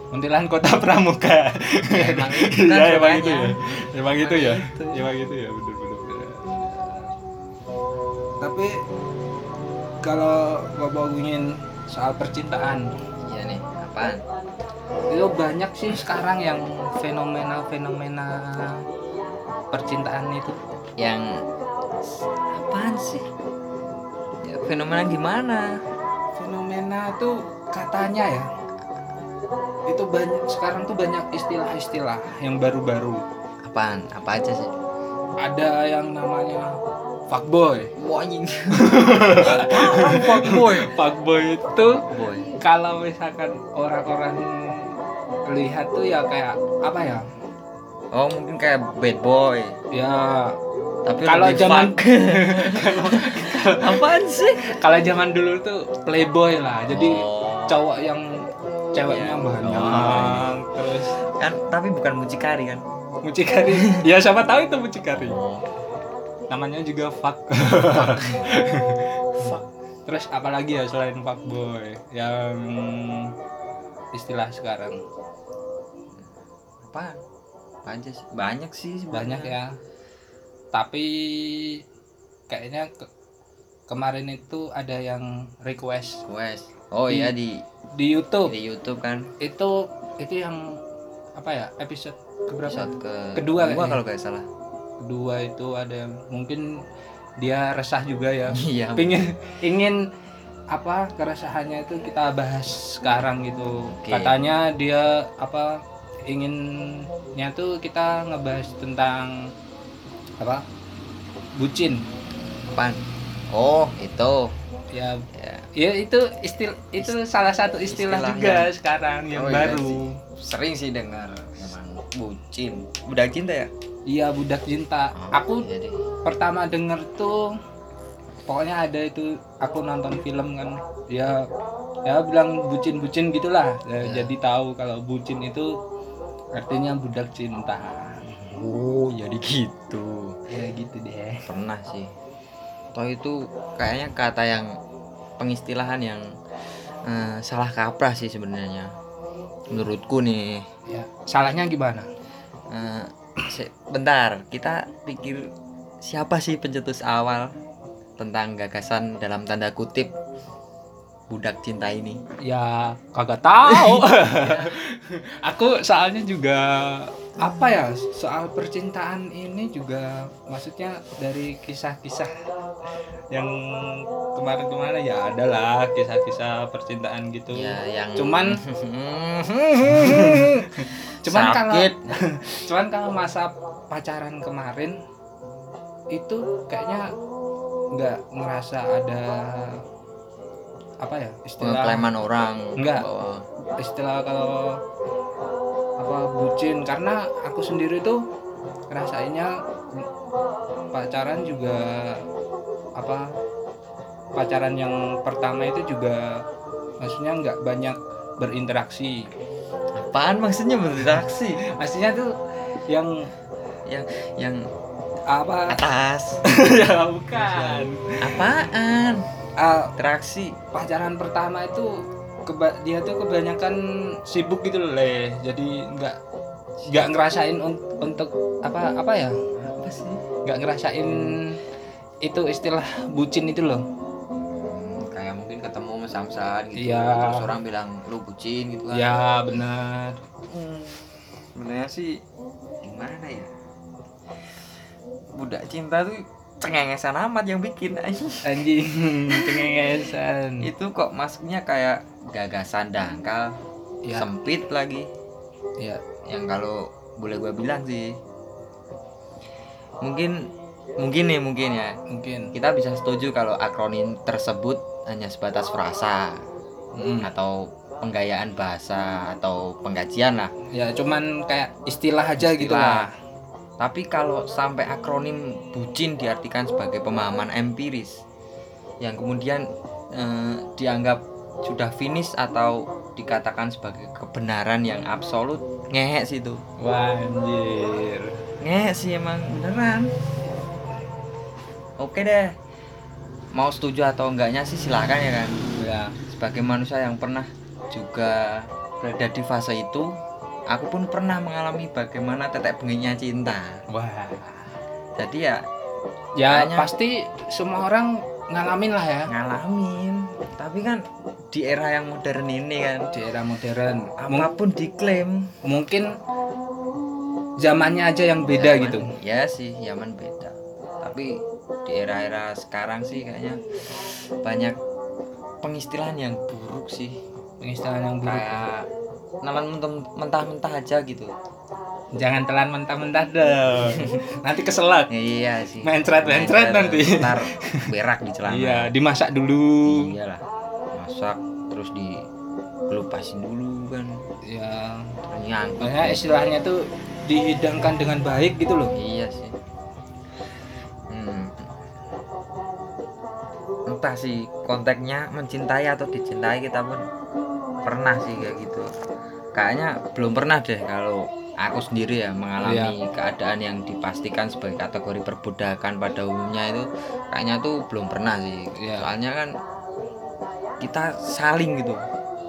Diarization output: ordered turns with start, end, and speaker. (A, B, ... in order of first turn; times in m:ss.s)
0:00.1-0:07.1 A
0:01.9-0:03.6 B
0:04.1-0:05.1 B
0:08.4-0:08.8 A
0:10.0-0:12.9 A
0:13.2-0:14.2 B
0:15.1-0:18.8 A
0:19.7-0:20.6 A
0:21.0-0:21.4 B
0:22.5-0:23.3 B
0:24.4-0:25.8 B
0:26.4-0:28.5 A
0:29.9-0:33.2 A
0:33.6-0:34.7 B
0:35.4-0:37.9 A
0:38.0-0:40.9 B
0:38.7-0:42.0 A
0:42.1-0:42.5 B
0:42.6-0:44.9 A
0:45.5-0:47.2 A
0:48.1-0:49.8 B
0:49.9-0:50.6 A
0:51.0-0:54.7 B
0:51.2-1:01.1 A
0:56.9-0:57.8 B
0:59.0-1:00.5 B
1:01.2-1:02.8 B
1:03.2-1:05.4 A
1:03.7-1:04.0 B
1:05.1-1:05.6 B
1:06.5-1:09.3 A
1:08.0-1:08.4 B
1:09.4-1:09.6 B
1:10.1-1:13.3 A
1:14.1-1:15.0 A
1:16.8-1:17.2 B
1:17.8-1:19.6 B
1:19.1-1:19.8 A
1:20.7-1:21.8 A
1:22.5-1:23.1 A
1:23.9-1:26.2 A
1:26.2-1:27.6 B
1:27.1-1:27.3 A
1:27.9-1:28.5 A
1:28.4-1:29.3 B
1:29.4-1:30.8 A
1:31.4-1:34.0 A
1:32.6-1:34.5 B
1:35.0-1:36.8 A
1:37.4-1:40.1 A
1:38.5-1:39.2 B
1:40.7-1:49.5 A
1:43.7-1:44.4 B
1:50.4-1:50.6 A
1:51.6-1:52.0 A
1:52.7-1:54.5 B
1:54.9-2:00.2 A
1:55.3-1:55.7 B
1:57.9-1:58.7 B
1:59.3-2:03.7 B
2:04.1-2:05.7 A
2:05.1-2:06.0 B
2:06.2-2:07.6 A
2:08.5-2:11.5 A
2:12.0-2:15.8 A
2:14.0-2:14.3 B
2:16.5-2:18.2 A
2:18.3-2:20.4 B
2:20.5-2:21.4 A
2:21.4-2:22.1 B
2:22.9-2:24.8 B
2:25.4-2:26.3 B
2:27.0-2:28.9 B
2:29.7-2:30.7 B
2:30.9-2:32.1 A
2:32.7-2:35.5 B
2:36.0-2:37.5 B
2:38.2-2:40.1 B
2:41.3-2:42.2 B
2:42.4-2:52.3 A
2:43.6-2:44.8 B
2:53.3-2:58.6 A
2:57.5-3:02.0 B
2:59.8-3:05.0 A
3:06.1-3:07.1 A
3:07.9-3:09.8 A
3:11.0-3:12.1 A
3:11.6-3:13.4 B
3:12.8-3:13.0 A
3:13.8-3:14.8 A
3:16.0-3:18.2 A
3:18.9-3:20.1 A
3:20.9-3:22.2 A
3:23.0-3:23.4 A
3:24.4-3:26.4 A
3:27.0-3:29.3 A
3:29.9-3:31.6 B
3:31.6-3:33.3 A
3:33.9-3:34.6 B
3:35.3-3:35.8 A
3:35.7-3:36.4 B
3:36.4-3:38.4 A
3:37.4-3:39.2 B
3:39.6-3:39.9 A
3:40.0-3:40.6 B
3:40.7-3:46.2 A
3:46.8-3:49.4 A
3:49.6-3:50.2 B
3:50.4-3:51.6 A
3:51.1-3:51.4 B
3:52.2-3:53.9 A
3:54.5-3:59.2 B
3:56.8-3:57.4 A
3:58.9-4:00.2 A
4:00.4-4:02.2 B
4:02.8-4:03.5 B
4:05.3-4:08.7 B
4:08.4-4:10.7 A
4:09.3-4:09.8 B
4:10.6-4:13.6 B
4:14.0-4:14.3 A
4:14.1-4:15.1 B
4:16.2-4:18.2 B
4:20.0-4:22.0 B
4:22.1-4:22.5 A
4:22.5-4:26.4 B
4:26.9-4:27.3 A
4:27.2-4:30.5 B
4:30.7-4:33.1 A
4:32.4-4:33.1 B
4:33.8-4:38.2 B
4:39.0-4:46.6 B
4:46.8-4:48.4 A
4:48.6-4:50.1 B
4:52.0-4:52.5 B
4:53.5-4:55.6 B
4:55.8-4:56.2 A
4:56.2-5:00.1 B
5:00.7-5:03.8 B
5:03.9-5:04.7 A
5:05.2-5:05.6 B
5:06.4-5:09.3 A
5:06.5-5:06.9 B
5:09.3-5:13.1 B
5:13.1-5:14.5 A
5:14.2-5:15.5 B
5:15.6-5:16.2 A
5:17.6-5:19.1 A
5:18.4-5:24.8 B
5:25.6-5:27.2 B
5:27.6-5:28.4 A
5:28.2-5:28.9 B
5:29.4-5:31.3 B
5:32.1-5:35.1 A
5:33.9-5:34.2 B
5:35.1-5:38.9 B
5:35.8-5:37.8 A
5:38.5-5:40.1 A
5:39.8-5:42.2 B
5:42.9-5:44.2 B
5:44.4-5:45.1 A
5:45.2-5:46.2 B
5:45.8-5:48.9 A
5:48.9-5:49.6 B
5:51.1-5:51.7 B
5:53.9-5:57.0 B
5:57.8-5:58.9 B
5:59.5-6:09.5 B
6:02.6-6:03.0 A
6:08.8-6:09.1 A
6:10.8-6:12.0 B